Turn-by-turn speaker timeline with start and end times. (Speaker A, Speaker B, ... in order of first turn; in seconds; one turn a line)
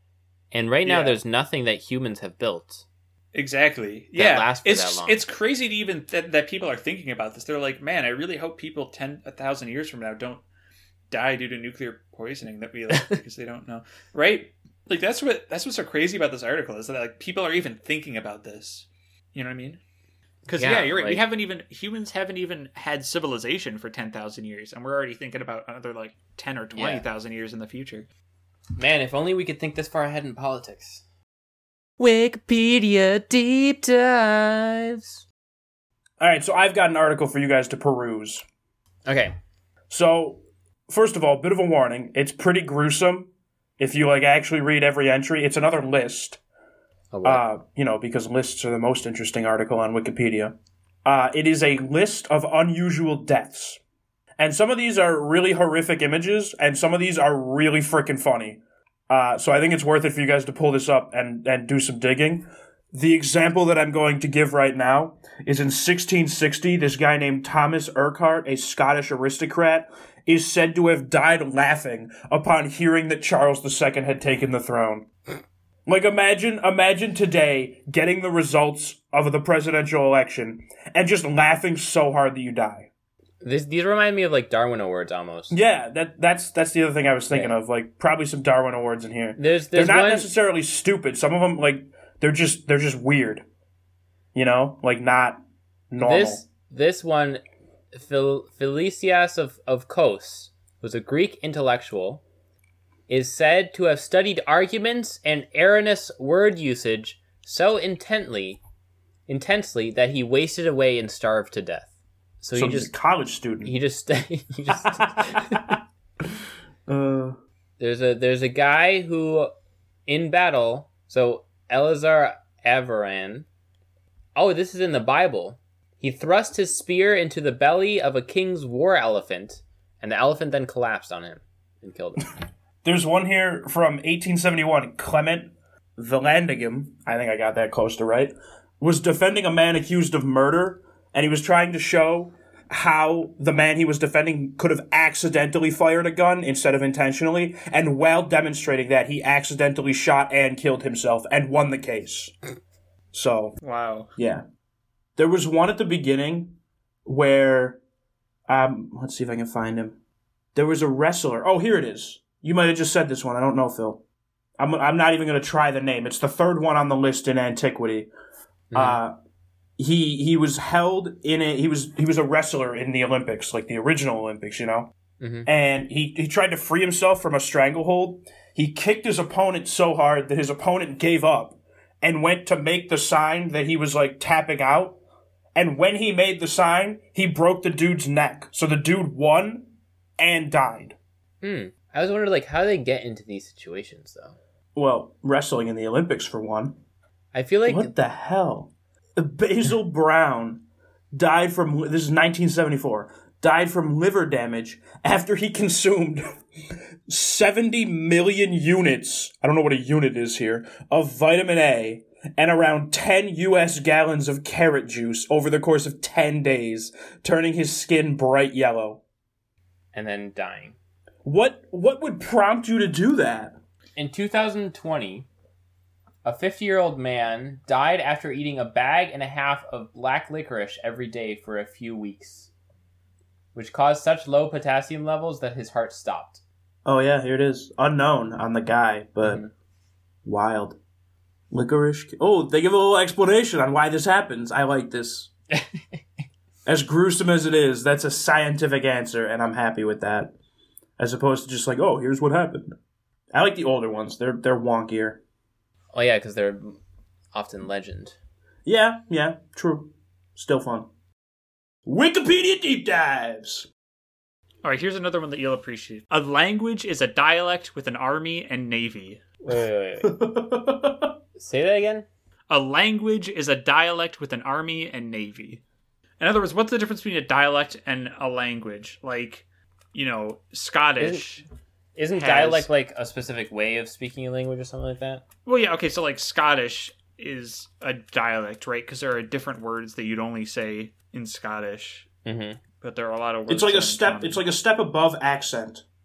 Speaker A: 0.5-2.8
Speaker B: 0.8-1.2
Speaker B: 3.3-10.4
Speaker A: 4.2-5.2
Speaker B: 11.1-19.8
Speaker A: 20.5-21.3
Speaker B: 20.5-28.1
Speaker A: 26.7-27.1
Speaker A: 28.8-31.0
Speaker A: 32.0-35.2
Speaker C: 36.2-38.5
Speaker A: 39.0-39.3
Speaker C: 39.9-46.4
Speaker A: 47.1-47.4
Speaker C: 47.2-53.8
Speaker C: 54.4-75.1
Speaker C: 75.9-82.9
Speaker A: 83.4-85.6
Speaker C: 85.5-93.4
Speaker A: 87.3-87.6
Speaker A: 89.4-90.3
Speaker C: 94.3-95.4
Speaker C: 95.9-96.4
Speaker A: 96.0-97.4
Speaker A: 97.9-102.2
Speaker A: 103.1-108.6
Speaker A: 109.3-111.9
Speaker A: 112.4-112.9
Speaker C: 112.5-113.8
Speaker A: 113.6-115.7
Speaker C: 115.2-115.6
Speaker C: 116.9-117.4
Speaker A: 117.8-119.5
Speaker A: 120.1-123.5
Speaker A: 124.3-132.2
Speaker C: 132.8-152.3
Speaker C: 153.1-153.6
Speaker B: 153.6-154.1
Speaker C: 154.2-154.4
Speaker C: 155.2-157.8
Speaker C: 158.5-160.0
Speaker C: 160.6-164.0
Speaker C: 164.6-168.1
Speaker A: 168.7-169.0
Speaker C: 168.7-169.1
Speaker C: 169.8-174.9
Speaker A: 175.2-175.5
Speaker C: 175.5-185.0
Speaker C: 185.6-191.0
Speaker A: 191.4-194.4
Speaker C: 194.8-196.8
Speaker A: 197.3-197.9
Speaker C: 197.7-200.6
Speaker C: 201.1-206.2
Speaker C: 207.1-219.0
Speaker A: 219.9-220.8
Speaker C: 221.2-223.6
Speaker A: 224.0-225.3
Speaker A: 226.2-232.5
Speaker A: 233.6-236.4
Speaker C: 236.8-239.4
Speaker A: 239.2-239.5
Speaker C: 240.2-240.8
Speaker C: 241.5-245.3
Speaker A: 245.5-246.0
Speaker C: 246.7-250.3
Speaker C: 251.0-252.7
Speaker C: 253.3-255.2
Speaker A: 255.9-256.8
Speaker A: 257.3-258.2
Speaker C: 258.7-260.9
Speaker C: 261.9-263.7
Speaker B: 264.6-269.2
Speaker A: 269.4-270.2
Speaker C: 270.0-271.1
Speaker A: 271.4-272.1
Speaker B: 272.5-275.6
Speaker B: 276.2-281.4
Speaker A: 282.0-285.2
Speaker B: 282.2-282.7
Speaker B: 285.5-292.1
Speaker A: 292.3-292.6
Speaker B: 292.8-294.4
Speaker C: 293.5-295.8